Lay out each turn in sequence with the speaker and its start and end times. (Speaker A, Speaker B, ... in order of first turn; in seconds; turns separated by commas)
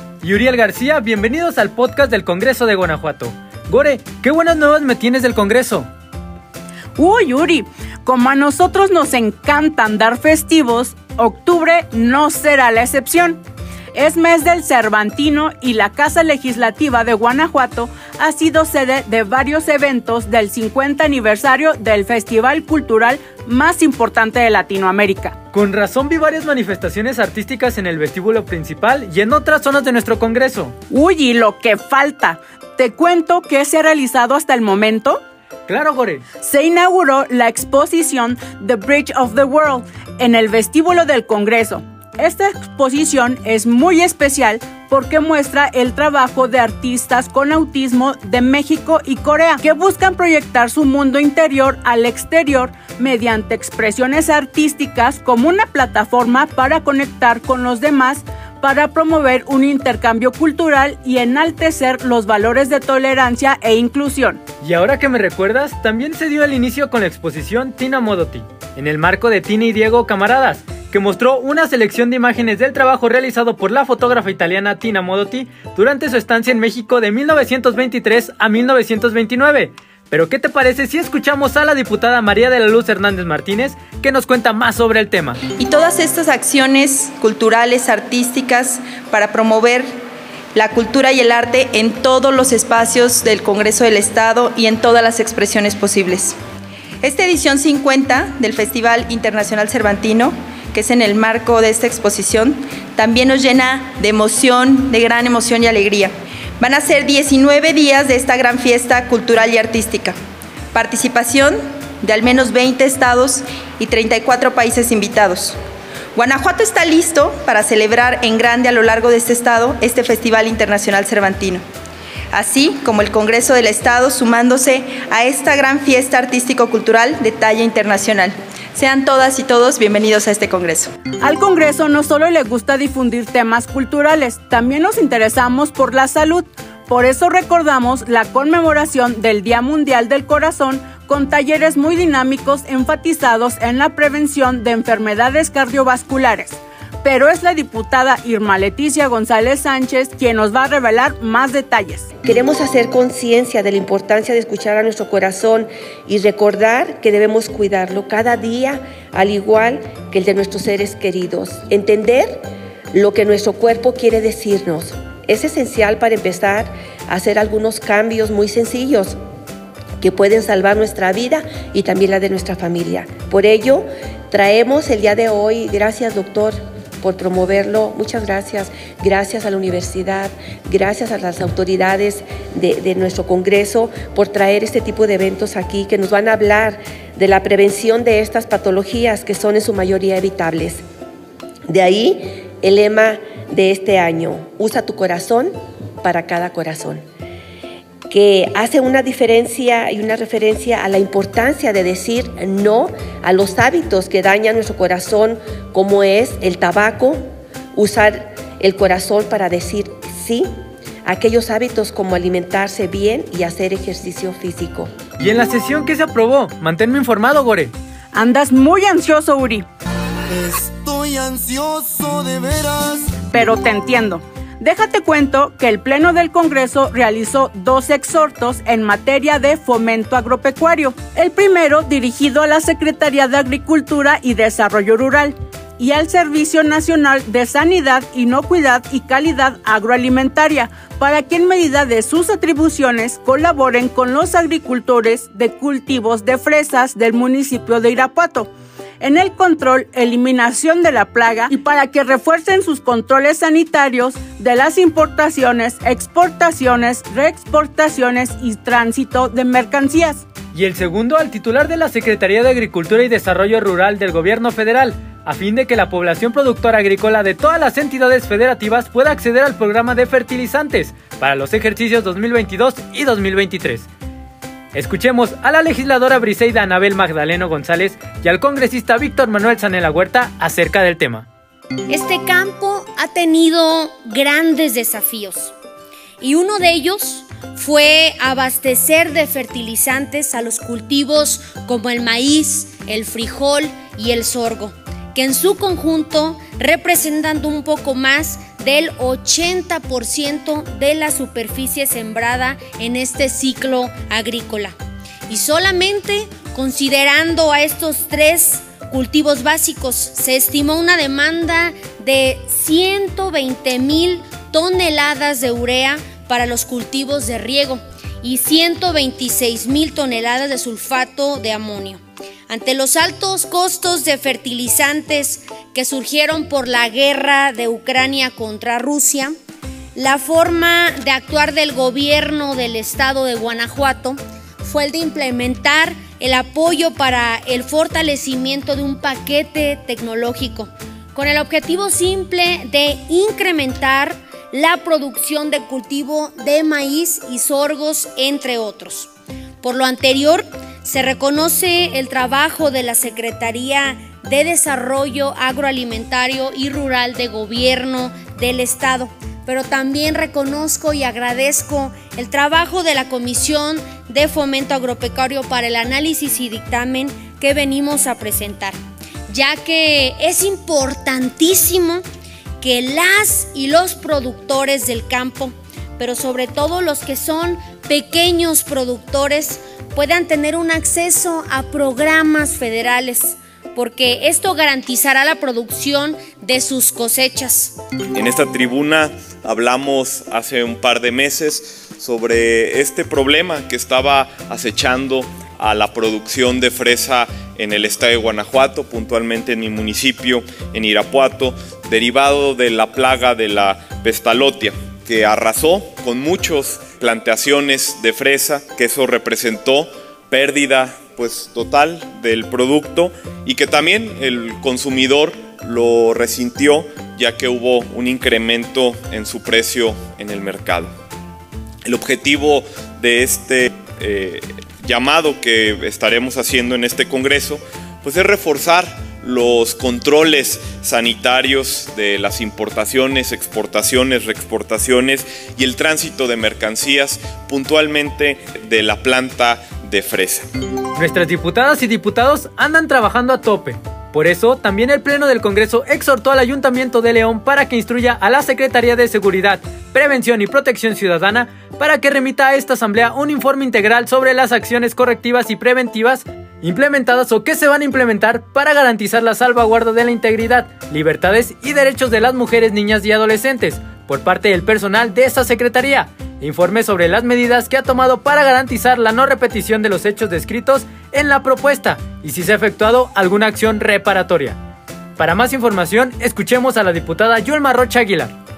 Speaker A: 0.2-5.9, Speaker B: 7.0-13.4, Speaker B: 13.9-25.4, Speaker A: 25.5-30.7, Speaker B: 30.9-35.2, Speaker A: 35.7-36.2, Speaker B: 36.4-64.4, Speaker A: 64.6-85.4, Speaker C: 85.5-89.9, Speaker C: 90.5-96.3, Speaker C: 97.0-110.2, Speaker C: 110.7-115.6, Speaker C: 116.1-121.6, Speaker C: 122.3-130.9, Speaker B: 131.2-152.1, Speaker D: 152.2-169.2, Speaker D: 170.0-190.8, Speaker D: 191.7-197.0, Speaker D: 198.1-207.2, Speaker D: 207.7-210.5, Speaker D: 211.0-214.9, Speaker A: 215.2-217.7, Speaker B: 218.1-219.7, Speaker E: 220.3-223.1, Speaker B: 223.3-260.2, Speaker A: 260.5-273.9, Speaker A: 274.7-281.2, Speaker F: 281.9-285.5, Speaker F: 286.2-304.7, Speaker F: 305.3-329.3, Speaker F: 329.9-349.1, Speaker F: 349.6-368.8, Speaker F: 369.3-372.0, Speaker F: 372.6-387.8, Speaker G: 388.1-420.9, Speaker G: 421.8-440.5, Speaker A: 440.9-474.6, Speaker A: 475.2-478.3